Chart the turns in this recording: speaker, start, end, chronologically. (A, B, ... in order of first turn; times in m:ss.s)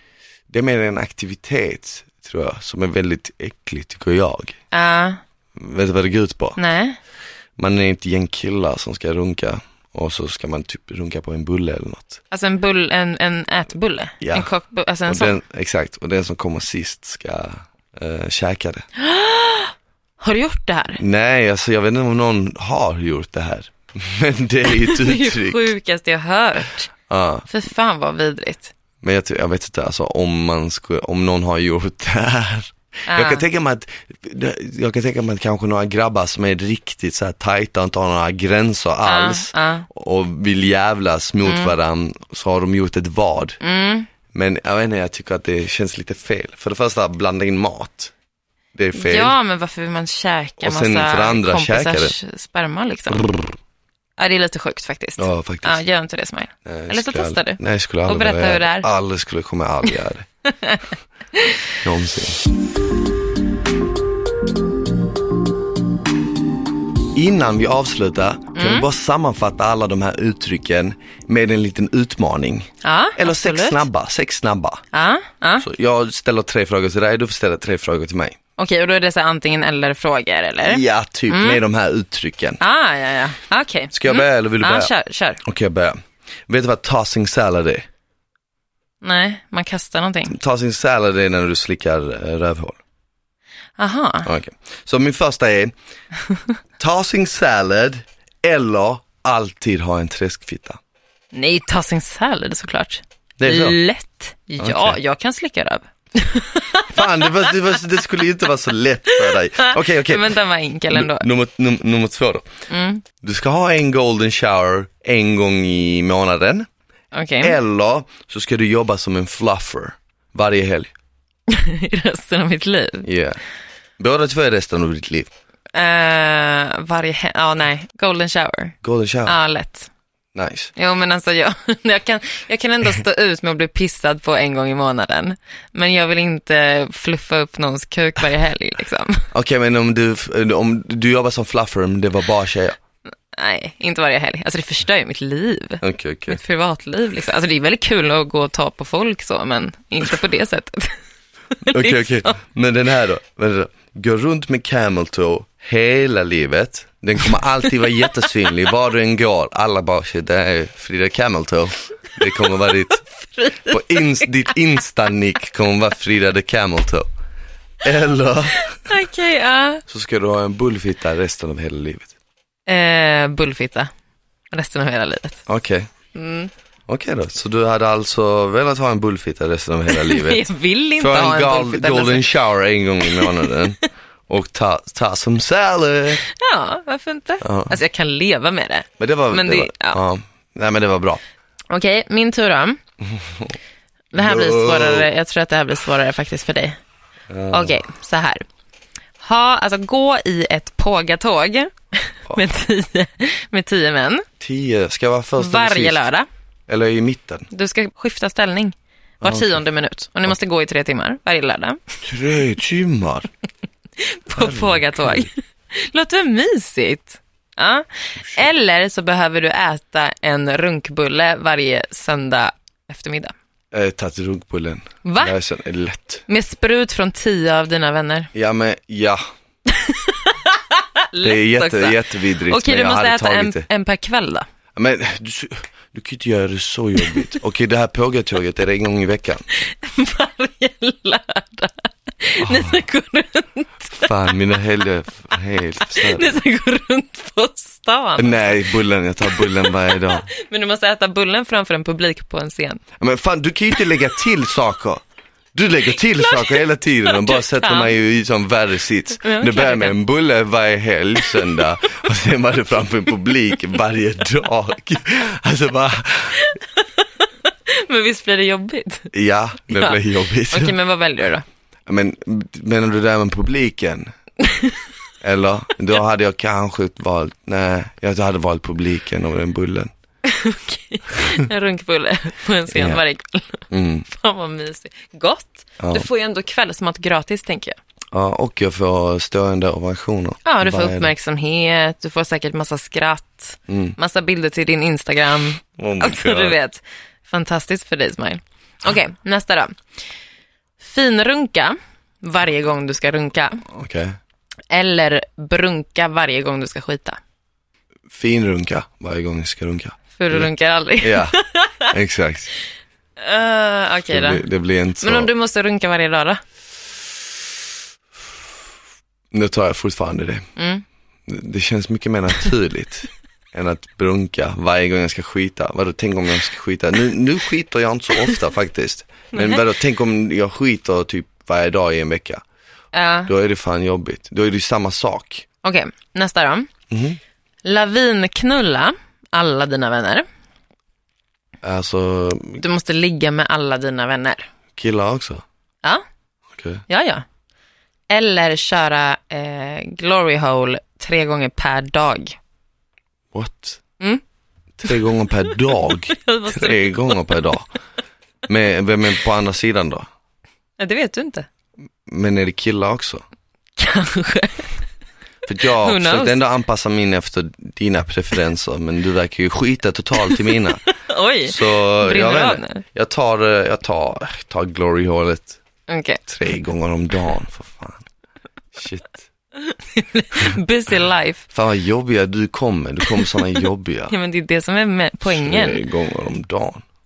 0:00.5-0:04.6 A
0:04.7-0:05.2 B
0:05.6-0:06.6 A
0:06.6-0:07.0 B
0:07.6-0:12.2 A
0:12.3-0:15.4 B
0:14.2-0:14.5 A
0:15.1-0:18.9 A
0:19.0-0:21.0 B
0:21.0-0:25.7 A
0:24.7-0:26.9 B
0:27.1-0:27.5 A
0:27.5-0:28.7 B
0:29.0-0:43.6 A
0:33.1-0:33.4 B
0:39.0-0:39.9 B
0:41.4-0:41.7 B
0:43.6-0:44.1 B
0:44.3-0:48.1 A
0:48.7-0:49.4 A
0:48.9-0:53.5 B
0:50.6-0:52.2 A
0:54.2-0:58.9 B
0:55.2-0:55.8 A
0:56.6-1:00.3 A
1:00.5-1:01.6 B
1:01.8-1:02.4 A
1:07.1-1:14.8 A
1:08.6-1:08.9 B
1:12.8-1:13.8 B
1:14.9-1:15.7 B
1:15.6-1:18.4 A
1:18.6-1:21.6 B
1:20.6-1:22.6 A
1:22.6-1:25.4 B
1:23.9-1:27.9 A
1:29.0-1:30.4 B
1:30.3-1:32.8 A
1:33.8-1:34.3 B
1:34.3-1:35.7 A
1:36.8-1:40.8 A
1:41.3-1:47.3 B
1:43.4-1:43.8 A
1:44.6-1:45.0 A
1:46.9-1:50.4 A
1:49.1-1:51.3 B
1:50.9-1:52.5 A
1:52.7-1:53.0 B
1:53.2-1:56.7 A
1:57.1-1:57.6 B
1:57.4-2:00.9 A
2:01.5-2:03.1 B
2:03.0-2:03.4 A
2:04.0-2:05.3 A
2:05.7-2:09.9 B
2:08.8-2:09.4 A
2:10.4-2:10.7 A
2:10.8-2:19.3 B
2:19.3-2:22.8 A
2:23.3-2:31.0 B
2:25.8-2:26.4 A
2:31.6-2:32.4 B
2:31.7-2:43.0 A
2:43.0-2:44.3 B
2:43.7-2:47.1 A
2:47.8-2:48.7 A
2:48.6-2:49.8 B
2:49.9-2:52.1 A
2:52.7-2:53.9 B
2:54.5-2:55.4 B
2:55.5-2:55.9 A
2:56.2-2:56.5 B
2:56.9-3:06.2 A
2:59.9-3:02.4 B
3:03.0-3:03.5 B
3:06.2-3:10.0 B
3:07.4-3:07.8 A
3:09.0-3:11.2 A
3:11.7-3:12.8 B
3:13.0-3:13.6 A
3:14.1-3:16.8 B
3:14.1-3:15.1 A
3:17.3-3:17.8 A
3:17.5-3:18.4 B
3:19.2-3:24.3 B
3:24.4-3:26.0 A
3:25.4-3:26.3 B
3:26.7-3:27.5 A
3:27.5-3:31.8 B
3:29.2-3:29.6 A
3:32.0-3:33.3 A
3:34.0-3:43.4 B
3:34.3-3:35.3 A
3:38.2-3:38.5 A
3:43.7-3:46.2 A
3:45.0-3:45.4 B
3:46.3-3:48.3 B
3:48.3-3:49.2 A
3:49.7-3:54.5 B
3:51.2-3:53.7 A
3:54.8-3:59.4 A
3:59.5-4:04.4 B
4:02.4-4:02.7 A
4:04.0-4:06.4 A
4:05.8-4:08.7 B
4:08.2-4:10.3 A
4:09.2-4:12.8 B
4:13.0-4:15.0 A
4:15.5-4:26.5 A
4:16.2-4:18.0 B
4:19.2-4:20.0 B
4:26.4-4:29.1 B
4:29.1-4:30.8 A
4:29.7-4:31.4 B
4:31.9-4:34.1 A
4:34.4-4:34.8 B
4:35.2-4:39.9 A
4:40.2-4:47.8 B
4:42.7-4:43.0 A
4:43.7-4:44.1 A
4:45.8-4:46.1 A
4:48.1-4:51.1 A
4:50.4-4:59.8 B
4:53.7-4:54.0 A
4:55.8-4:56.6 A
5:00.8-5:03.6 B
5:03.7-5:04.2 A
5:04.7-5:07.2 B
5:08.1-5:11.4 A
5:10.2-5:11.9 B
5:11.9-5:12.5 A
5:13.2-5:14.5 B
5:14.1-5:15.3 A
5:15.0-5:16.4 B
5:19.3-5:20.5 A
5:20.6-5:20.8 B
5:21.3-5:32.4 A
5:29.3-5:29.6 B
5:32.9-5:33.3 B
5:33.3-5:35.5 A
5:35.6-5:36.7 B
5:36.9-5:37.2 A
5:37.6-5:40.3 B
5:41.6-5:42.6 A
5:42.6-5:44.5 B
5:44.8-5:45.4 A
5:46.5-5:46.8 A
5:46.9-5:47.2 B
5:48.1-5:52.4 B
5:53.3-5:53.8 A
5:54.8-5:57.7 A
5:55.7-5:57.5 B
5:58.5-6:00.1 A
6:00.8-6:01.5 B
6:02.1-6:03.2 A
6:03.8-6:04.8 B
6:05.5-6:10.8 A
6:05.7-6:06.4 B
6:10.2-6:12.8 B
6:11.5-6:15.6 A
6:15.9-6:16.2 B
6:16.3-6:18.1 A
6:18.7-6:19.3 A
6:19.6-6:21.4 B
6:21.5-6:24.1 A
6:24.1-6:25.8 B
6:25.2-6:26.8 A